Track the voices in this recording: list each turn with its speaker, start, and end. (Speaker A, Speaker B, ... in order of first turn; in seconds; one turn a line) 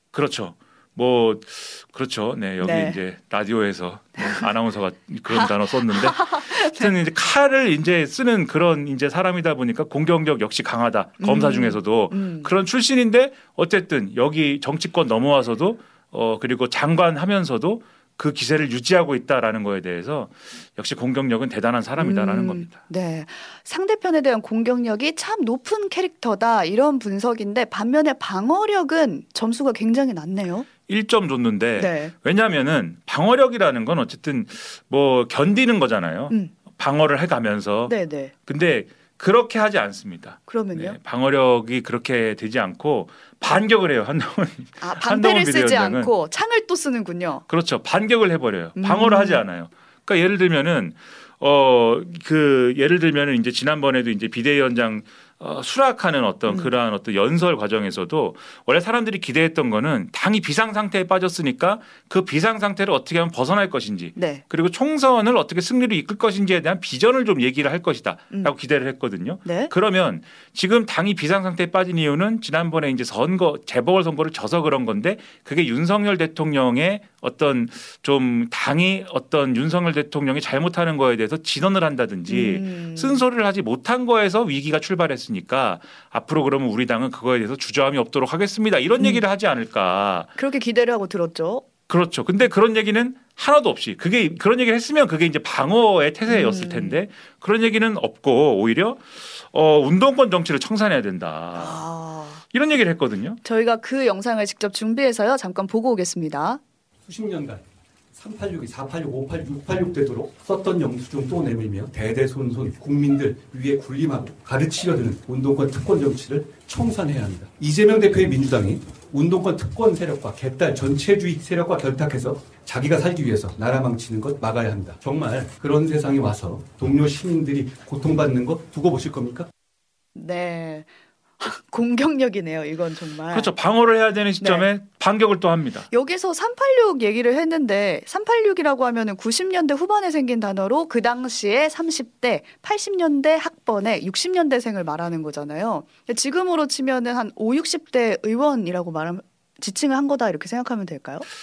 Speaker A: 0.1-22.8
Speaker B: 2.6-3.0
Speaker B: 4.2-4.5
Speaker B: 5.3-6.9
Speaker B: 11.2-12.5
Speaker B: 22.0-30.7
Speaker A: 30.9-37.9
Speaker B: 31.8-32.1
Speaker B: 37.9-38.3
Speaker A: 38.5-46.1
Speaker B: 40.5-41.0
Speaker B: 44.8-47.4
Speaker A: 47.5-90.3
Speaker B: 48.8-49.4
Speaker B: 56.5-56.7
Speaker B: 64.2-64.4
Speaker B: 69.4-69.7
Speaker B: 82.3-83.2
Speaker B: 89.0-89.2
Speaker B: 90.4-91.7
Speaker A: 91.9-101.8
Speaker B: 96.2-97.0
Speaker B: 101.5-102.4
Speaker A: 102.5-103.4
Speaker B: 103.4-106.6
Speaker C: 107.0-129.5
Speaker B: 130.1-130.9
Speaker B: 131.4-133.5
Speaker A: 133.3-135.9
Speaker B: 134.4-134.7
Speaker B: 135.9-151.2